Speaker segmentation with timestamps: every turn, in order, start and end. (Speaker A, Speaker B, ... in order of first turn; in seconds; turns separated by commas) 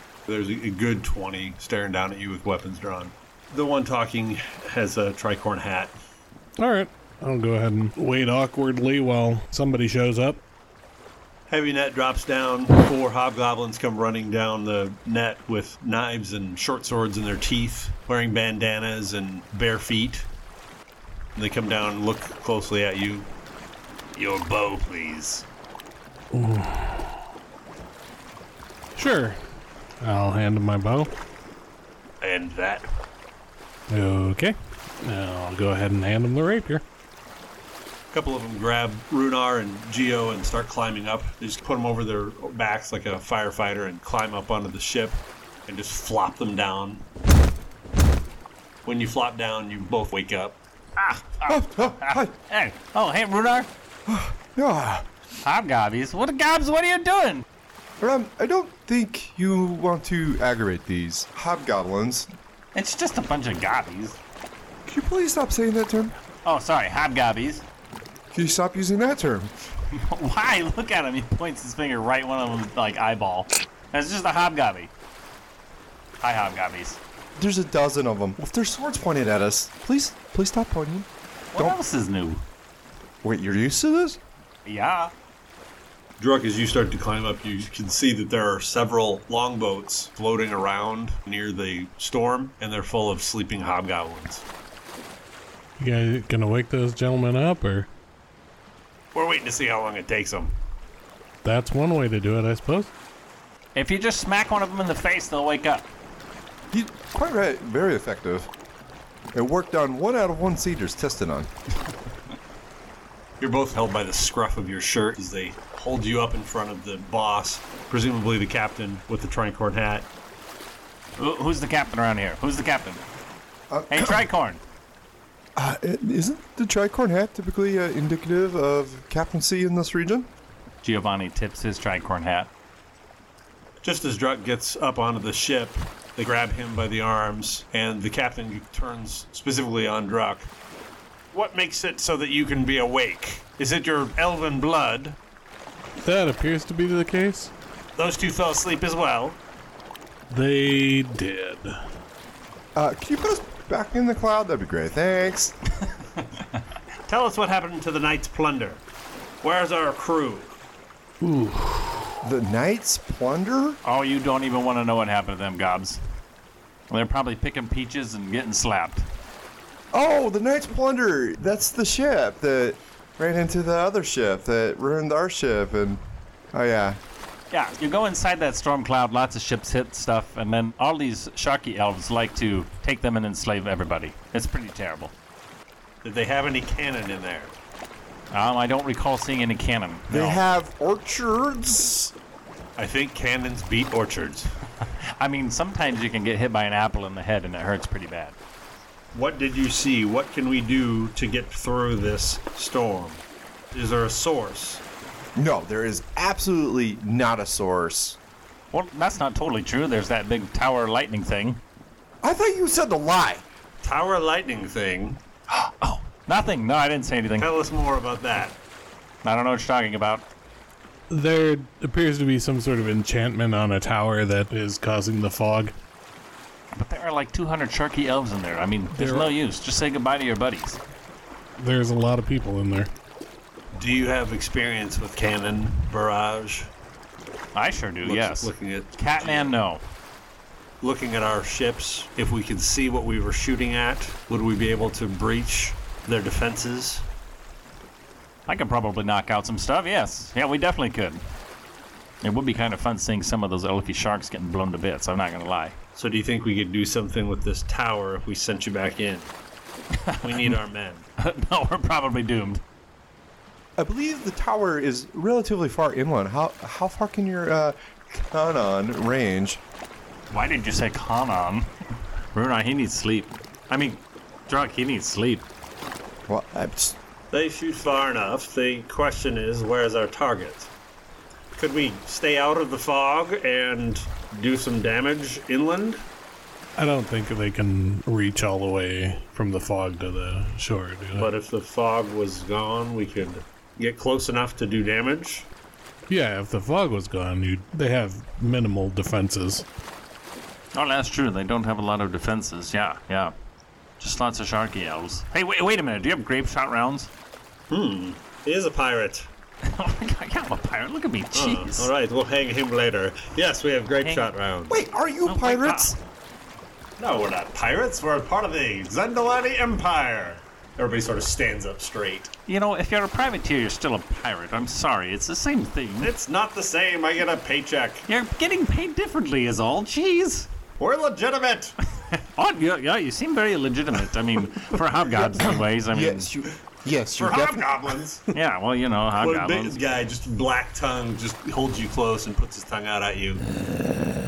Speaker A: 0.3-5.9, Speaker B: 6.6-10.4, Speaker A: 11.5-20.3, Speaker A: 21.3-23.3, Speaker A: 24.1-25.4, Speaker B: 26.3-27.2, Speaker B: 28.9-29.4, Speaker B: 30.0-31.1, Speaker A: 32.2-32.9, Speaker B: 33.9-36.8, Speaker A: 38.1-47.0, Speaker A: 48.8-50.6, Speaker C: 51.0-53.7, Speaker D: 51.5-52.3, Speaker D: 54.1-55.0, Speaker C: 55.4-57.4, Speaker D: 58.0-62.3, Speaker C: 62.7-64.2, Speaker D: 64.8-66.1, Speaker C: 66.4-67.6, Speaker D: 68.3-69.5, Speaker C: 69.9-74.9, Speaker C: 76.2-77.0, Speaker D: 77.4-81.8, Speaker C: 81.5-82.4, Speaker D: 83.2-84.2, Speaker C: 84.6-85.1, Speaker A: 86.2-94.4, Speaker B: 95.8-97.9, Speaker A: 99.1-100.5, Speaker B: 101.4-102.9, Speaker C: 103.7-105.9, Speaker D: 106.7-108.5, Speaker D: 109.3-111.5, Speaker A: 113.4-120.1, Speaker C: 121.2-123.0, Speaker D: 123.7-124.2, Speaker C: 123.9-124.6, Speaker D: 125.5-130.3, Speaker C: 130.8-132.5, Speaker A: 133.8-140.5, Speaker A: 141.3-145.2, Speaker B: 146.0-147.5, Speaker A: 148.0-149.4, Speaker B: 150.3-151.7, Speaker D: 152.7-155.5, Speaker A: 157.1-158.8, Speaker A: 159.4-160.6, Speaker B: 161.2-162.2, Speaker D: 162.2-163.8, Speaker C: 163.8-166.0, Speaker C: 166.9-169.1, Speaker D: 169.9-177.0, Speaker C: 177.5-185.1, Speaker A: 186.0-187.5, Speaker C: 188.3-190.4, Speaker D: 190.1-192.1, Speaker A: 192.8-194.5, Speaker C: 195.2-198.3, Speaker A: 199.1-204.8, Speaker D: 205.3-208.2, Speaker C: 208.7-211.6, Speaker D: 212.2-213.4, Speaker A: 213.8-215.2, Speaker C: 215.5-217.5, Speaker A: 217.4-218.6, Speaker C: 219.2-220.2, Speaker B: 221.1-225.7, Speaker C: 226.7-230.8, Speaker B: 228.9-229.3, Speaker B: 231.6-232.9, Speaker A: 233.7-236.7, Speaker C: 237.5-239.8, Speaker A: 238.0-239.5, Speaker A: 240.8-247.0, Speaker C: 248.5-251.2, Speaker C: 252.2-255.8, Speaker A: 255.9-259.3, Speaker C: 259.9-260.6, Speaker A: 260.2-261.1, Speaker C: 261.2-262.6, Speaker D: 263.8-269.6, Speaker C: 270.3-271.7, Speaker C: 272.3-275.5, Speaker D: 276.3-277.0, Speaker A: 277.3-280.7, Speaker A: 281.6-286.0, Speaker B: 286.8-291.3, Speaker A: 291.2-295.5, Speaker B: 296.1-299.7, Speaker C: 300.7-303.3, Speaker C: 304.0-307.1, Speaker A: 307.7-309.3, Speaker C: 309.6-311.9, Speaker A: 311.3-314.8, Speaker C: 314.0-314.3, Speaker D: 314.7-315.9, Speaker C: 315.2-316.0, Speaker A: 317.0-322.3, Speaker C: 322.5-326.1, Speaker A: 326.0-328.0, Speaker C: 328.1-330.5, Speaker A: 330.8-331.8, Speaker C: 332.0-336.3, Speaker D: 335.2-338.0, Speaker A: 337.2-338.3, Speaker C: 338.3-339.8, Speaker A: 339.2-343.4